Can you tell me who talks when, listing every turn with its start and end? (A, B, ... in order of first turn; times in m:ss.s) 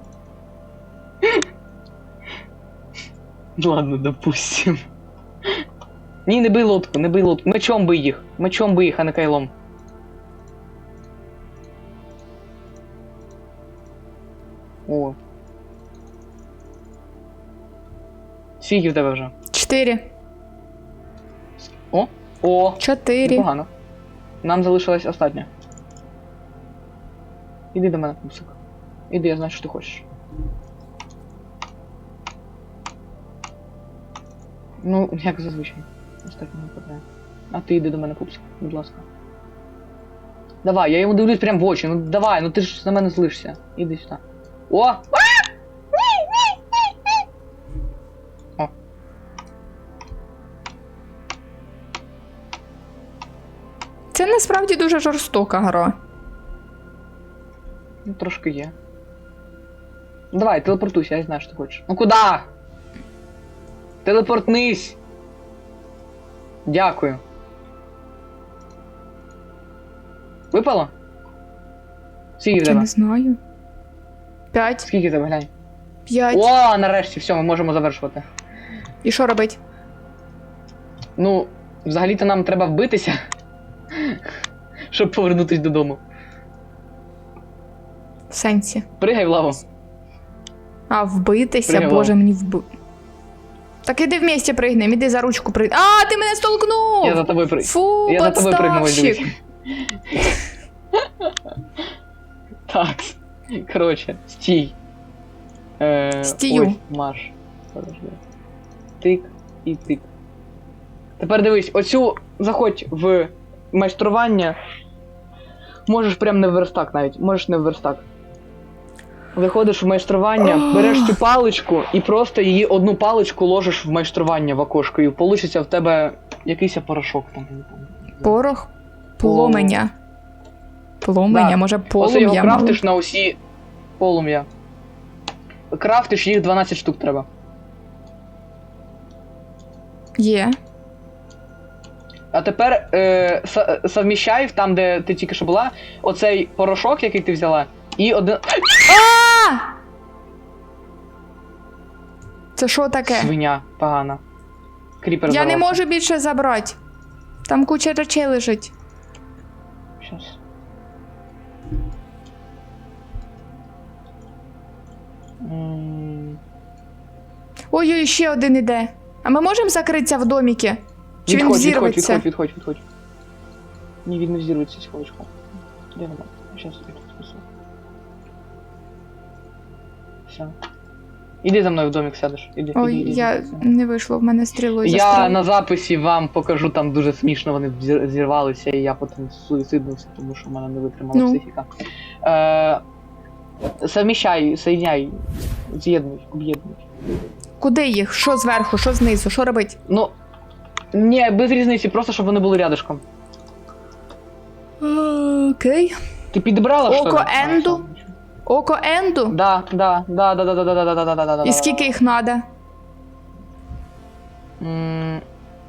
0:03.6-0:04.8 A
0:06.3-0:09.5 A
0:14.9-0:15.2 A
0:18.6-0:19.3 A
0:19.5-0:20.1 B
0:21.6-0:23.7 A
0:22.8-0:23.5 B
0:24.4-0:25.5 A
0:27.7-0:28.6 A
0:29.1-0:30.1 A
0:34.8-0:39.1 A
0:40.6-0:46.6 A
0:54.1-0:56.0 B
0:58.0-0:58.8 A
1:00.3-1:02.5 A
1:04.0-1:05.0 A
1:06.7-1:07.2 A
1:10.5-1:10.9 A
1:12.4-1:12.9 A
1:12.6-1:13.4 B
1:14.5-1:14.9 B
1:14.8-1:15.5 A
1:16.1-1:16.5 B
1:16.3-1:18.3 A
1:19.0-1:19.6 B
1:21.2-1:23.2 A
1:23.9-1:24.2 A
1:24.9-1:26.0 A
1:28.3-1:28.8 B
1:29.0-1:29.6 A
1:30.9-1:32.7 B
1:31.7-1:32.1 A
1:33.8-1:39.2 B
1:37.0-1:40.2 A
1:40.9-1:41.5 A
1:42.7-1:44.8 A
1:45.8-1:48.2 A
1:46.2-1:46.8 B
1:49.0-1:50.1 A
1:51.2-1:54.6 A
1:55.9-1:58.1 A
1:59.3-2:08.4 A
2:00.4-2:01.2 B
2:08.2-2:09.9 B
2:09.2-2:09.8 A
2:11.0-2:12.8 B
2:11.3-2:13.4 A
2:14.0-2:14.5 A
2:15.7-2:17.3 A
2:20.2-2:20.6 B
2:22.3-2:28.9 A
2:28.9-2:29.7 B
2:32.6-2:33.3 B
2:33.0-2:34.2 A
2:35.0-2:35.8 A
2:35.3-2:36.8 B
2:37.5-2:38.7 B
2:40.0-2:40.4 A
2:45.4-2:46.4 A
2:47.7-2:52.2 B
2:51.3-2:52.8 A
2:54.0-2:55.4 A
2:56.0-2:57.4 A
3:00.3-3:00.6 A
3:01.4-3:03.7 A
3:02.8-3:05.4 B
3:04.8-3:11.7 A
3:11.2-3:11.4 B
3:12.2-3:12.8 A
3:13.8-3:16.8 A
3:17.6-3:19.8 B
3:19.9-3:20.2 A
3:20.9-3:23.0 A
3:24.8-3:26.0 B
3:26.3-3:28.1 A
3:26.9-3:27.8 B
3:28.5-3:29.4 B
3:29.3-3:32.0 A
3:31.4-3:32.4 B
3:34.6-3:35.2 A